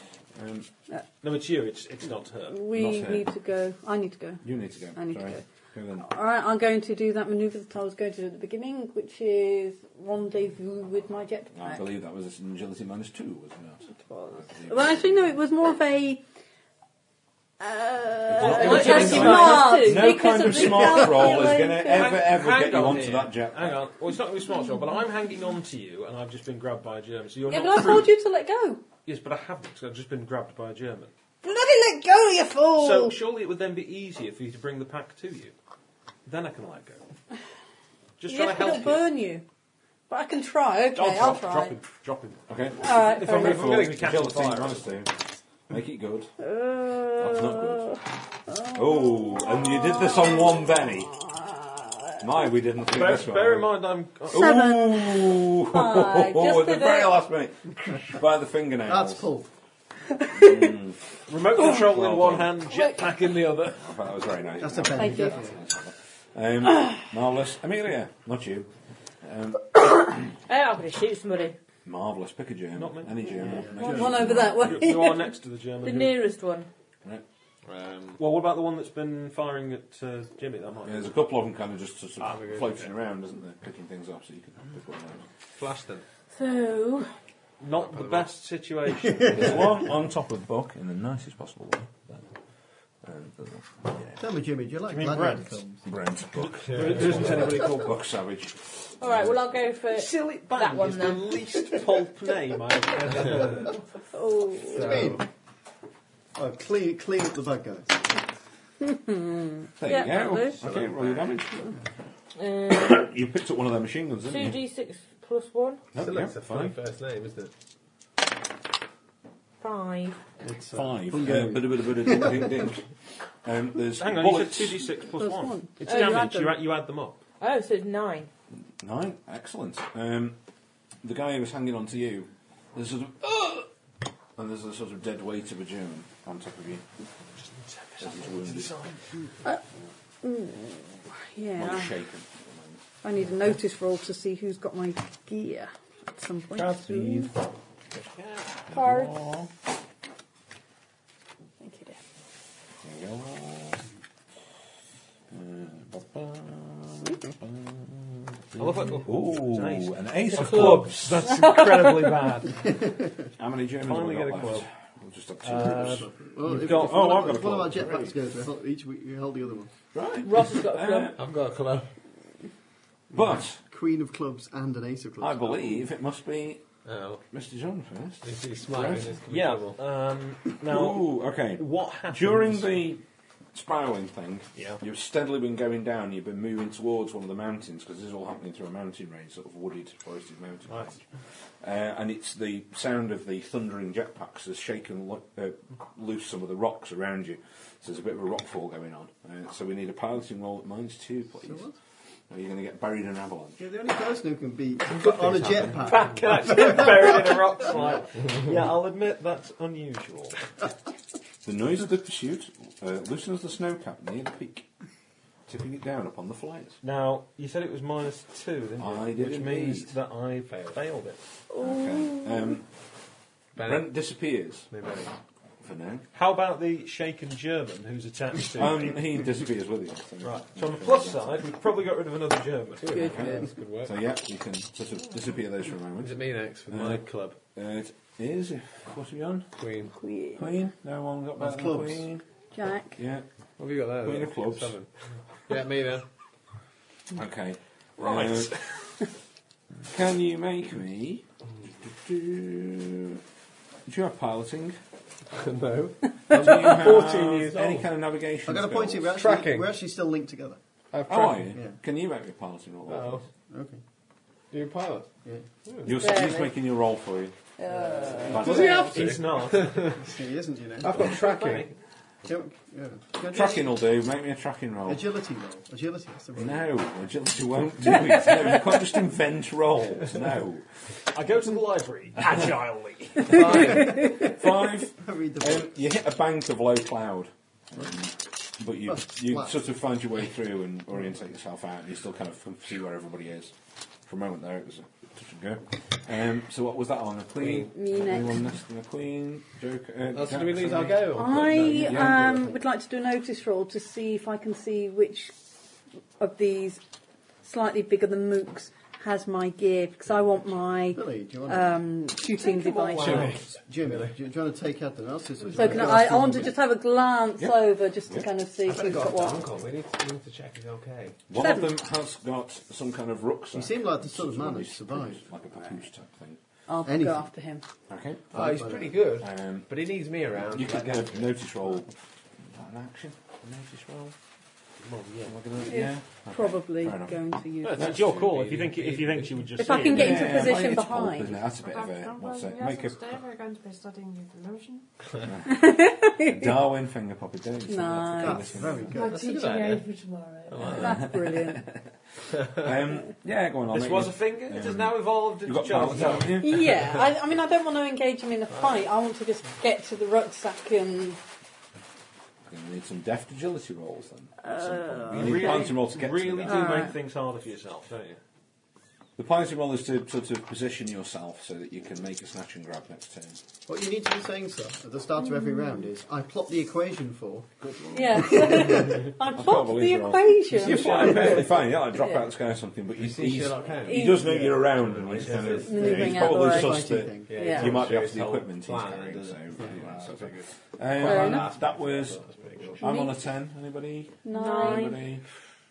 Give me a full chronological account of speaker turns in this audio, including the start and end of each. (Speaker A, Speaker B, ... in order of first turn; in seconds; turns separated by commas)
Speaker A: 0.3-0.7, Speaker B: 1.2-2.6, Speaker C: 2.5-5.4, Speaker A: 2.7-3.3, Speaker A: 4.4-6.1, Speaker C: 6.0-11.8, Speaker A: 11.6-15.2, Speaker C: 13.9-16.2, Speaker C: 17.6-22.2, Speaker A: 18.3-23.8, Speaker B: 18.4-19.7, Speaker D: 18.4-20.3, Speaker B: 21.9-28.1, Speaker C: 27.5-28.8, Speaker B: 29.1-31.1, Speaker C: 31.4-33.2, Speaker B: 32.8-35.5, Speaker B: 36.2-37.0, Speaker B: 38.2-39.1, Speaker C: 38.3-39.4, Speaker C: 40.1-41.8, Speaker B: 40.9-44.8, Speaker A: 42.5-45.1, Speaker C: 42.8-43.9, Speaker A: 45.7-46.3, Speaker C: 46.4-52.3, Speaker A: 47.1-48.0, Speaker A: 48.7-51.1, Speaker A: 52.2-53.8, Speaker B: 52.9-54.6, Speaker C: 54.3-57.2, Speaker A: 54.3-59.3, Speaker E: 58.9-59.5, Speaker A: 60.3-61.0, Speaker C: 60.3-60.7, Speaker B: 61.3-63.9, Speaker A: 61.5-62.6, Speaker C: 62.7-63.1, Speaker A: 63.8-68.7, Speaker E: 64.6-65.6, Speaker C: 65.0-65.5, Speaker A: 69.2-70.3, Speaker D: 70.5-71.6, Speaker A: 71.8-74.8, Speaker B: 72.8-73.3, Speaker E: 73.3-74.5, Speaker C: 73.8-75.3, Speaker B: 74.6-76.2, Speaker D: 75.8-76.7, Speaker F: 77.6-78.2, Speaker B: 78.2-81.1, Speaker A: 80.8-85.2, Speaker F: 82.2-82.8, Speaker F: 85.6-86.0, Speaker C: 86.4-87.1, Speaker B: 87.6-89.7, Speaker F: 87.7-88.3, Speaker A: 89.2-92.2, Speaker A: 93.0-94.2, Speaker E: 94.2-95.8, Speaker B: 94.9-95.6, Speaker A: 95.8-99.4, Speaker B: 96.7-98.0, Speaker F: 96.7-97.5, Speaker D: 99.0-101.4, Speaker B: 99.9-103.8, Speaker C: 104.1-105.1, Speaker F: 104.7-105.2, Speaker E: 104.7-105.2, Speaker E: 106.3-108.2, Speaker C: 108.8-110.5, Speaker A: 109.8-111.7, Speaker F: 110.6-111.2, Speaker D: 112.4-113.0, Speaker A: 112.7-114.6, Speaker D: 114.3-115.8, Speaker A: 115.9-116.8, Speaker F: 116.0-117.5, Speaker D: 119.6-120.2, Speaker E: 120.4-122.7, Speaker A: 120.7-122.9, Speaker A: 123.4-124.9, Speaker B: 124.0-127.2, Speaker C: 125.2-126.5, Speaker D: 125.8-126.5, Speaker D: 127.4-128.3, Speaker A: 128.8-130.4, Speaker A: 131.0-133.7, Speaker A: 134.4-136.8, Speaker B: 137.4-139.3, Speaker A: 138.0-138.8, Speaker C: 140.2-141.9, Speaker A: 141.6-142.8, Speaker C: 143.0-147.3, Speaker A: 146.6-147.3, Speaker B: 147.9-148.6, Speaker A: 148.7-149.5, Speaker C: 148.7-149.2, Speaker C: 151.6-152.0, Speaker A: 152.8-153.8, Speaker A: 155.3-161.3, Speaker B: 158.6-162.7, Speaker A: 163.4-168.2, Speaker B: 163.8-164.7, Speaker B: 165.4-167.7, Speaker E: 165.6-169.7, Speaker A: 169.9-171.2, Speaker D: 170.2-171.2, Speaker F: 171.2-171.9, Speaker A: 173.1-173.6, Speaker E: 173.7-175.8, Speaker A: 175.2-176.6, Speaker F: 176.8-177.2, Speaker A: 177.3-179.1, Speaker F: 178.2-179.8, Speaker B: 179.3-182.8, Speaker A: 180.7-183.0, Speaker A: 183.5-191.0, Speaker B: 184.6-184.8, Speaker A: 191.6-201.7, Speaker E: 201.4-201.7, Speaker A: 202.3-203.7, Speaker E: 203.6-207.2, Speaker F: 205.1-205.8, Speaker B: 205.8-210.4, Speaker A: 211.4-214.7, Speaker A: 215.5-216.8, Speaker B: 216.8-221.2, Speaker A: 218.8-219.9, Speaker C: 221.5-222.6, Speaker A: 221.6-222.7, Speaker F: 223.6-223.9, Speaker A: 223.6-224.7, Speaker F: 224.7-225.1, Speaker A: 225.6-226.1, Speaker B: 226.1-229.0, Speaker A: 228.5-231.4, Speaker B: 230.2-233.1, Speaker F: 232.8-233.9, Speaker C: 232.9-233.2, Speaker A: 233.1-237.0, Speaker F: 236.0-237.4, Speaker A: 237.6-239.5, Speaker F: 239.6-239.9, Speaker C: 240.0-240.4, Speaker A: 240.4-242.2, Speaker E: 241.4-242.1, Speaker C: 242.5-243.0, Speaker A: 243.0-243.2, Speaker F: 243.6-244.9, Speaker A: 244.0-244.8, Speaker F: 245.5-246.1, Speaker A: 247.1-248.6, Speaker B: 248.0-248.5, Speaker A: 249.9-251.2, Speaker A: 251.9-253.2, Speaker A: 253.9-254.8, Speaker F: 255.3-257.9, Speaker A: 256.3-259.1, Speaker E: 258.5-260.6, Speaker F: 259.1-259.8, Speaker F: 260.9-261.6, Speaker A: 261.1-263.2, Speaker F: 262.9-263.2, Speaker E: 263.5-263.8, Speaker F: 264.5-265.1, Speaker F: 265.6-265.9, Speaker A: 265.9-267.4, Speaker C: 265.9-266.5, Speaker C: 267.6-268.9, Speaker F: 267.8-270.1, Speaker A: 268.2-269.0, Speaker B: 268.5-269.9, Speaker E: 269.9-271.0, Speaker F: 270.8-271.7, Speaker B: 271.1-271.7, Speaker E: 272.2-273.8, Speaker A: 273.2-275.0, Speaker E: 274.9-276.7, Speaker A: 276.4-280.7, Speaker B: 281.1-283.8, Speaker F: 283.3-283.9, Speaker A: 283.4-293.5, Speaker E: 285.0-285.8, Speaker E: 288.9-289.5, Speaker A: 294.1-302.4, Speaker C: 297.5-298.4, Speaker F: 300.1-302.5, Speaker C: 301.1-305.3, Speaker C: 306.2-306.8, Speaker C: 307.4-313.4, Speaker E: 310.9-311.8, Speaker F: 312.4-314.1, Speaker E: 313.1-316.6, Speaker C: 315.5-319.4, Speaker F: 318.6-321.2, Speaker A: 321.3-326.4, Speaker C: 321.4-321.7, Speaker E: 323.5-325.2, Speaker C: 326.7-327.6, Speaker E: 326.8-327.3, Speaker A: 327.9-328.3, Speaker E: 328.3-329.0, Speaker F: 328.3-331.4, Speaker A: 329.2-329.7, Speaker A: 330.4-331.9, Speaker A: 332.4-334.1, Speaker F: 334.8-335.4, Speaker A: 335.3-338.5, Speaker C: 335.6-337.9, Speaker F: 337.6-339.6, Speaker B: 337.8-340.4, Speaker C: 339.6-341.4, Speaker A: 339.7-343.2, Speaker G: 341.8-344.9, Speaker A: 345.2-348.9, Speaker C: 345.5-346.5, Speaker C: 347.7-348.7, Speaker E: 348.2-349.3, Speaker D: 349.0-350.5, Speaker G: 349.0-350.0, Speaker F: 349.0-349.9, Speaker F: 350.5-351.2, Speaker C: 350.6-351.6, Speaker A: 350.6-351.9, Speaker A: 352.4-356.7, Speaker B: 353.7-356.4, Speaker F: 355.9-356.2, Speaker C: 356.4-361.2, Speaker A: 362.5-366.8, Speaker C: 364.4-365.7, Speaker B: 365.1-368.2, Speaker C: 366.5-366.9, Speaker A: 369.2-373.4, Speaker E: 373.7-377.5, Speaker A: 377.6-392.2, Speaker C: 377.9-382.3, Speaker E: 378.3-379.1, Speaker B: 380.6-381.4, Speaker F: 380.9-381.4, Speaker F: 383.0-386.0, Speaker C: 383.9-384.6, Speaker B: 385.2-385.6, Speaker C: 385.6-387.8, Speaker E: 385.7-387.6, Speaker F: 387.3-392.9, Speaker C: 391.0-391.5, Speaker A: 392.8-395.2, Speaker C: 392.8-393.2, Speaker C: 394.2-395.0, Speaker D: 394.3-395.0